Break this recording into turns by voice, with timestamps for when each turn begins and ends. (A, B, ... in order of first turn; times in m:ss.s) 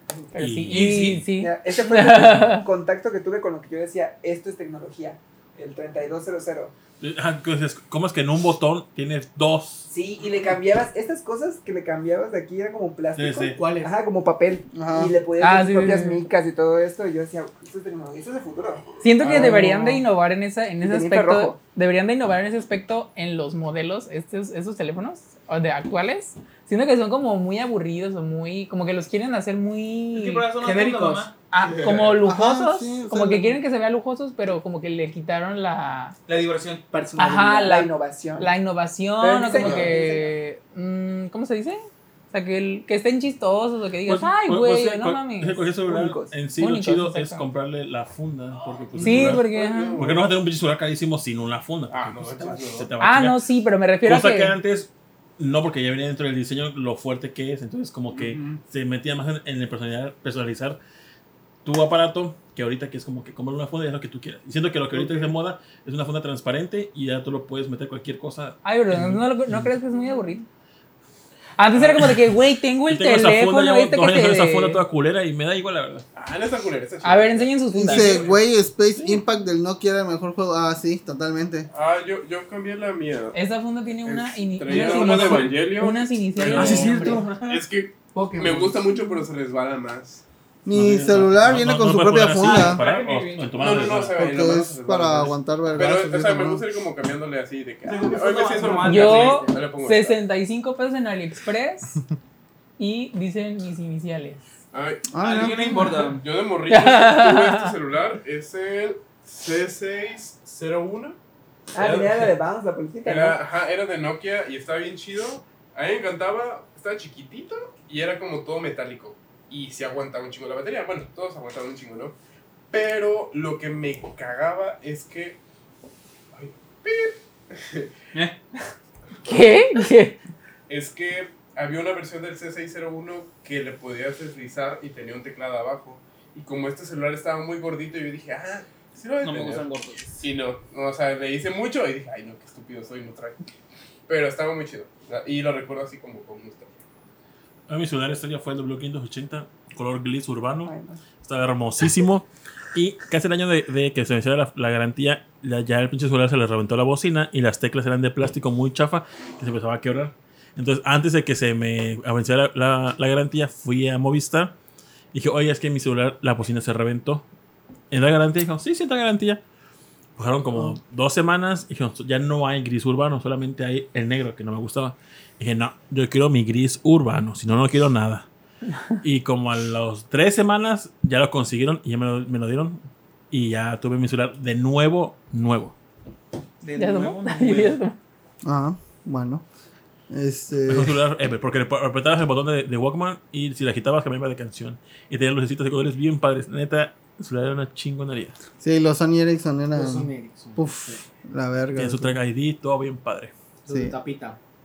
0:00.3-0:02.6 A
0:00.4-0:01.3 B
0:00.7-0:01.2 C
0:01.3-0:06.7 D
0:07.0-0:09.9 B
0:09.9-0:20.0 D
0:13.1-0:13.6 B
0:13.5-0:13.9 E
0:14.7-0:15.1 F
0:15.4-0:16.2 A
0:19.0-0:30.4 A
0:20.8-0:21.6 D
0:30.1-0:31.3 C
0:30.6-0:31.3 E
0:31.5-0:36.1 A
0:31.6-0:32.1 G
0:32.2-0:33.6 F
0:36.3-0:36.8 C
0:36.9-0:37.7 E
0:37.2-0:45.6 A
0:37.5-0:38.5 D
0:39.2-0:40.3 D
0:39.6-0:39.9 G
0:44.0-0:53.4 B
0:45.8-0:46.4 D
0:46.6-0:47.4 A
0:49.0-0:49.3 E
0:49.0-0:50.0 A
0:49.0-0:50.3 G
0:51.9-0:52.9 G
0:53.0-0:54.6 A
0:54.0-1:00.8 B
1:01.6-1:09.7 B
1:08.6-1:10.4 A
1:11.6-1:14.8 A
1:11.8-1:12.2 B
1:12.9-1:16.0 B
1:16.1-1:18.4 G
1:17.0-1:18.2 A
1:17.7-1:21.7 F
1:18.9-1:19.2 B
1:21.7-1:23.4 G
1:23.3-1:27.6 A
1:24.0-1:30.2 G
1:24.9-1:25.6 C
1:26.4-1:27.0 B
1:26.5-1:27.4 C
1:28.1-1:28.8 E
1:30.6-1:32.8 F
1:30.7-1:34.3 B
1:32.4-1:33.9 C
1:33.6-1:40.2 G
1:34.2-1:36.6 F
1:37.8-1:39.5 C
1:38.0-1:39.6 E
1:38.8-1:42.0 A
1:42.8-1:44.4 A
1:44.7-1:51.2 G
1:45.1-1:46.0 F
1:45.2-1:46.2 C
1:46.7-1:47.7 A
1:51.7-1:53.4 D
1:51.8-1:52.3 G
1:53.0-2:02.2 G
2:02.7-2:05.4 G
2:06.3-2:07.9 G
2:09.2-2:10.2 A
2:10.7-2:23.4 G
2:19.2-2:20.1 C
2:24.1-2:26.8 G
2:27.7-2:44.5 B
2:30.6-2:31.0 D
2:45.1-2:47.2 B
2:47.9-2:49.4 B
2:50.2-2:58.3 B
2:59.0-3:05.7 B
3:06.6-3:07.8 C
3:06.8-3:08.0 A
3:08.4-3:09.4 F
3:10.1-3:11.0 F
3:10.7-3:18.4 B
3:18.6-3:22.2 F
3:19.7-3:21.0 E
3:21.8-3:23.3 B
3:23.6-3:24.4 E
3:23.7-3:23.9 F